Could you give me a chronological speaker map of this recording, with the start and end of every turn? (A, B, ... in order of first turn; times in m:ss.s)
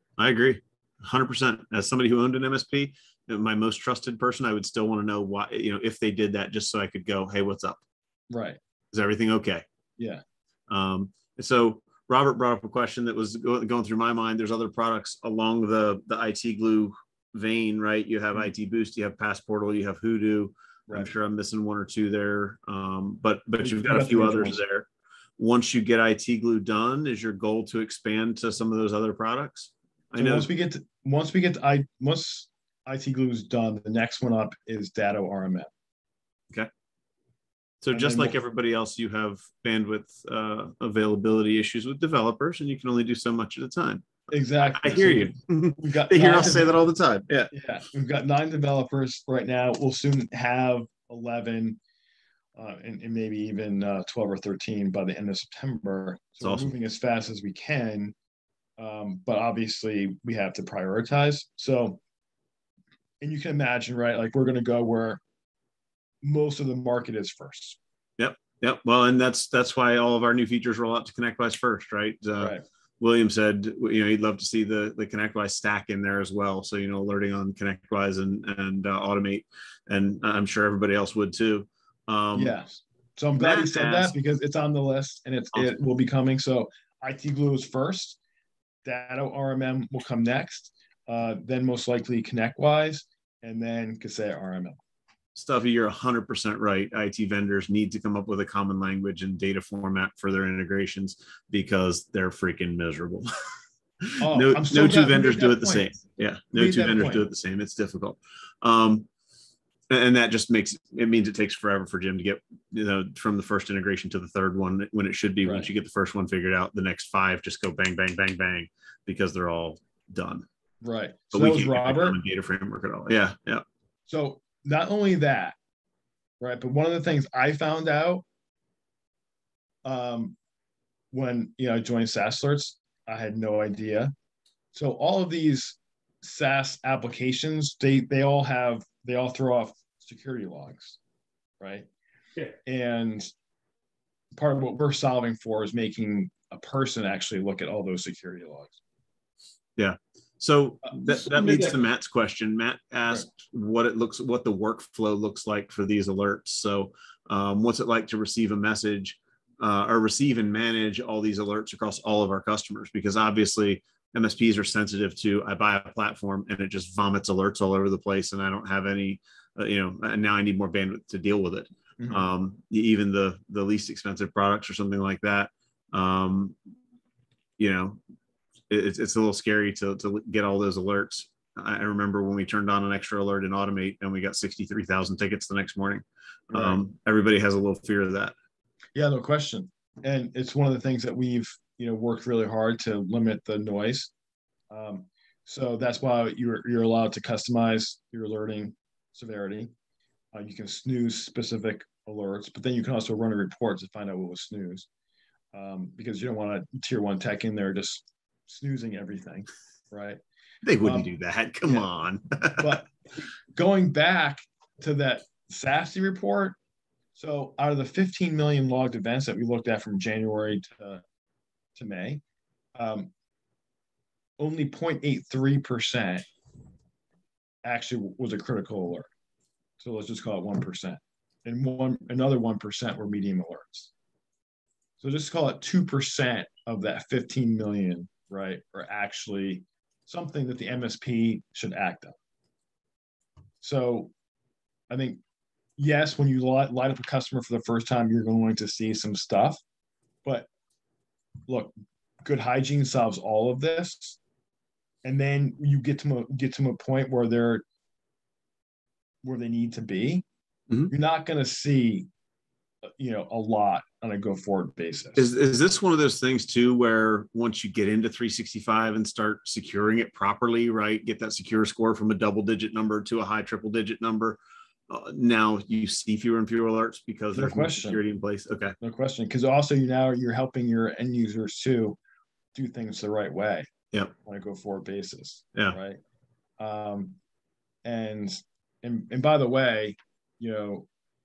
0:00.2-0:07.8 A
0:08.3-0:08.6 B
0:08.9-0:09.6 A
0:10.7-0:30.5 A
0:23.6-0:24.6 B
0:30.1-0:35.7 B
0:37.8-0:47.5 A
0:37.9-0:38.4 B
0:44.3-0:46.8 B
0:47.5-0:51.8 B
0:52.6-0:58.1 B
0:56.4-0:56.7 A
0:58.8-1:02.0 B
1:03.2-1:05.2 B
1:06.2-1:07.8 B
1:08.2-1:22.6 A
1:12.4-1:12.6 B
1:22.3-1:28.2 B
1:23.4-1:24.1 A
1:28.8-1:34.8 B
1:35.4-1:43.3 A
1:44.0-1:49.1 A
1:44.2-1:45.9 B
1:46.5-1:47.3 B
1:49.9-2:00.4 A
1:55.4-1:55.7 B
2:00.8-2:02.2 B
2:01.3-2:03.6 A
2:04.1-2:05.6 B
2:06.4-2:08.2 B
2:09.8-2:10.4 B
2:11.1-2:14.1 B
2:14.7-2:21.0 B
2:21.6-2:21.9 B
2:22.6-2:23.3 B
2:24.3-2:28.8 B
2:29.8-2:56.6 A
2:30.9-2:31.7 B
2:52.0-2:52.3 B
2:57.6-2:58.0 A
2:58.7-3:08.4 A
3:06.5-3:06.8 B
3:09.0-3:14.1 B
3:14.7-3:19.7 B
3:20.3-3:24.9 B
3:25.5-3:30.2 B
3:30.6-3:32.8 A
3:30.8-3:31.1 B
3:32.6-3:32.9 B
3:33.5-3:36.6 B
3:37.1-3:41.0 B
3:41.7-3:42.2 B
3:42.8-3:43.1 B
3:44.4-3:46.3 B
3:47.6-3:49.1 B
3:49.8-3:53.9 B
3:55.0-4:02.1 B
4:03.6-4:04.1 B
4:04.9-4:05.2 B
4:05.8-4:09.6 B
4:10.2-4:10.5 B
4:11.5-4:14.2 B
4:15.0-4:17.6 B
4:19.2-4:20.2 B
4:20.9-4:22.1 B
4:22.8-4:25.3 B
4:25.2-4:38.8 A
4:37.3-4:38.0 B
4:38.8-4:42.0 B
4:42.5-4:43.7 B
4:44.2-4:46.0 B
4:46.6-4:47.2 B
4:47.8-4:50.9 B